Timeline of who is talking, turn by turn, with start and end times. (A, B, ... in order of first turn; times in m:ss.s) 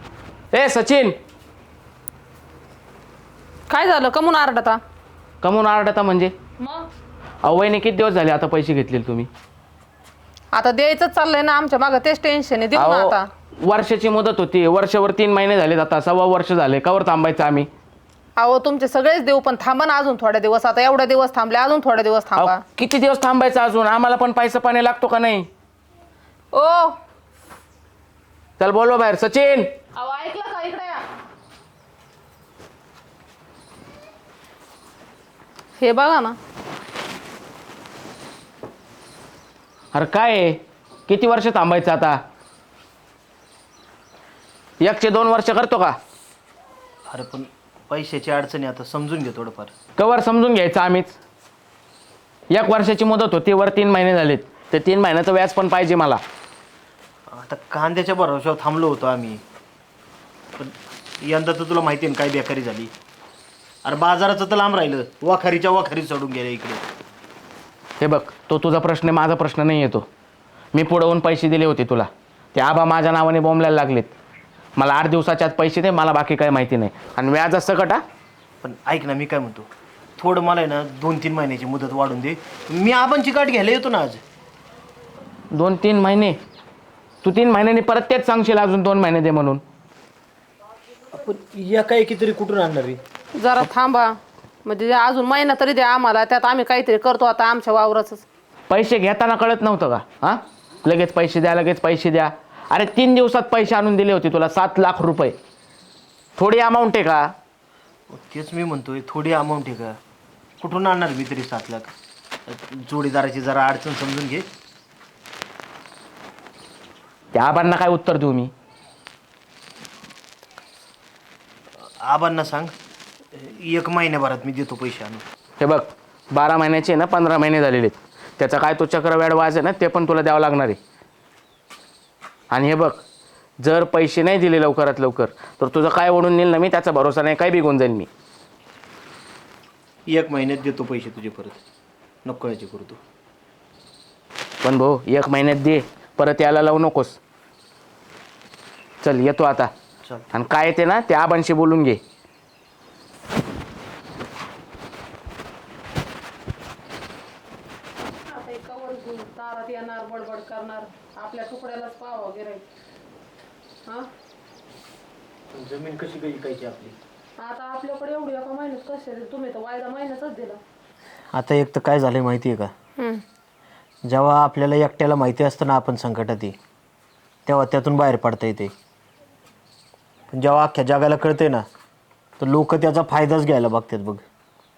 0:00.5-0:01.2 A
0:03.7-0:04.8 B
0:05.4-0:06.3 A
0:06.6-0:06.8 B
0:07.4-0:09.3 A
0:10.5-0:13.3 B
0:12.7-0:17.7 A
0:18.4-0:22.6 B
0:22.4-0:25.5 A
0:26.5-0:26.9 B
0:28.6-0:29.7 A
0:30.0-0:31.0 B
0:35.8-0:36.4 B
0:39.9-0:42.2 A
0:44.8-0:46.0 A
0:47.1-0:49.7 C
0:50.0-0:51.2 A
0:52.5-0:56.2 A
0:57.3-0:59.4 C
1:00.6-1:02.9 C
1:03.8-1:06.8 C
1:08.0-1:10.0 A
1:10.7-1:14.1 A
1:14.8-1:18.0 A
1:18.6-1:24.2 C
1:25.5-1:26.4 A
1:27.2-1:29.6 A
1:31.1-1:33.0 C
1:33.4-1:38.2 B
1:38.7-1:45.4 A
1:46.4-1:47.3 A
1:48.1-1:50.0 C
1:50.6-1:51.9 C
1:52.5-1:54.4 C
1:57.3-1:58.5 A
2:02.0-2:02.7 C
2:03.3-2:05.2 C
2:05.6-2:10.8 A
2:12.5-2:13.0 A
2:13.6-2:18.1 A
2:20.1-2:21.6 C
2:22.2-2:23.0 C
2:24.6-2:27.2 A
2:29.0-2:29.7 A
2:30.0-2:30.3 C
2:30.3-2:32.0 A
2:38.3-2:42.6 B
2:45.5-2:47.0 C
2:47.4-2:50.6 B
2:51.3-2:52.7 C
2:54.0-2:56.6 C
2:57.4-2:58.7 C
3:00.3-3:01.6 C
3:02.4-3:04.2 C